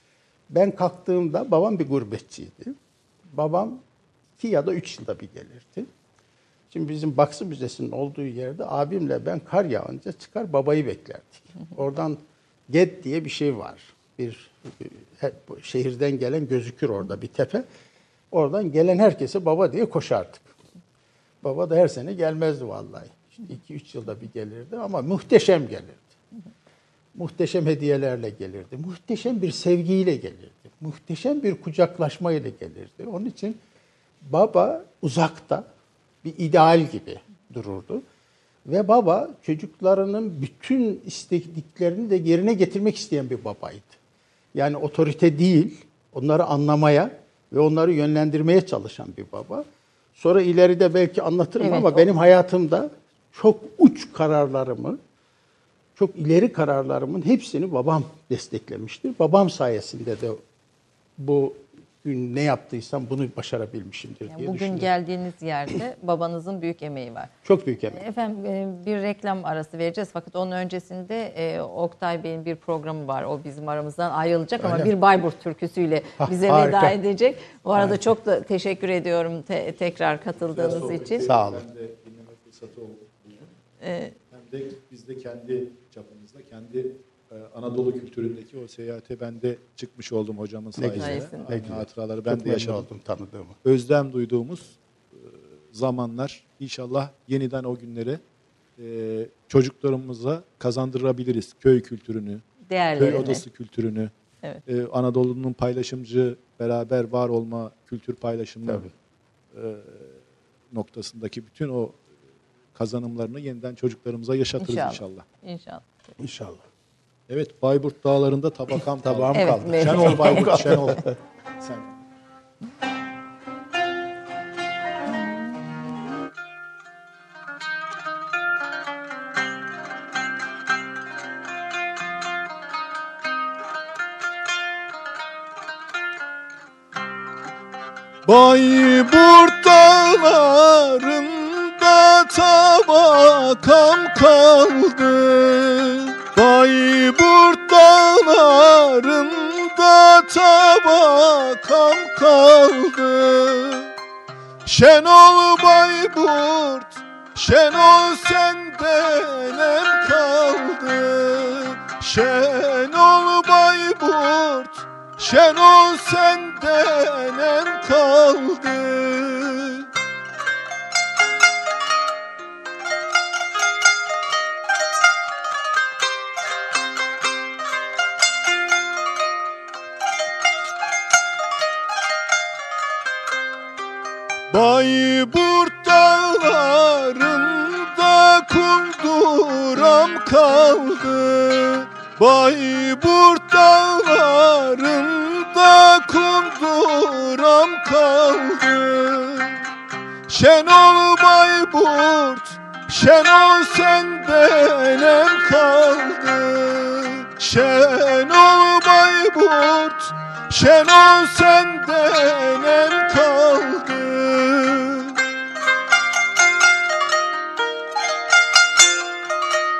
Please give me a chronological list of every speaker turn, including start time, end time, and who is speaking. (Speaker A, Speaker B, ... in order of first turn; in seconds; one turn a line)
Speaker A: 0.5-2.8
Speaker A: 3.3-3.8
Speaker A: 4.4-5.9
Speaker A: 6.7-17.6
Speaker A: 18.3-20.5
Speaker A: 21.4-26.0
Speaker A: 27.1-33.6
Speaker A: 34.2-35.6
Speaker A: 36.2-38.0
Speaker A: 38.6-43.9
Speaker A: 44.5-49.6
Speaker A: 50.1-55.0
Speaker B: 51.6-52.0
Speaker A: 56.0-60.4
Speaker A: 61.2-64.9
Speaker B: 64.3-67.3
Speaker A: 67.4-68.0
Speaker B: 67.9-81.3
Speaker A: 74.6-74.9
Speaker A: 76.2-77.0
Speaker A: 77.7-78.0
Speaker C: 80.5-83.5
Speaker A: 81.2-81.6
Speaker B: 83.8-84.2
Speaker C: 84.3-92.9
Speaker A: 90.8-93.6
Speaker B: 91.0-91.5
Speaker C: 93.6-98.2
Speaker C: 98.8-102.4
Speaker B: 102.7-103.4
Speaker C: 103.0-104.1
Speaker C: 104.7-108.9
Speaker C: 109.5-110.1
Speaker C: 110.7-112.0
Speaker C: 112.7-115.2
Speaker B: 114.6-115.8
Speaker A: 116.2-116.6
Speaker C: 117.3-122.0
Speaker A: 119.0-121.1
Speaker B: 119.3-120.7
Speaker D: 138.2-153.9
Speaker D: 154.7-169.8
Speaker D: 184.5-199.6
Speaker D: 200.3-215.2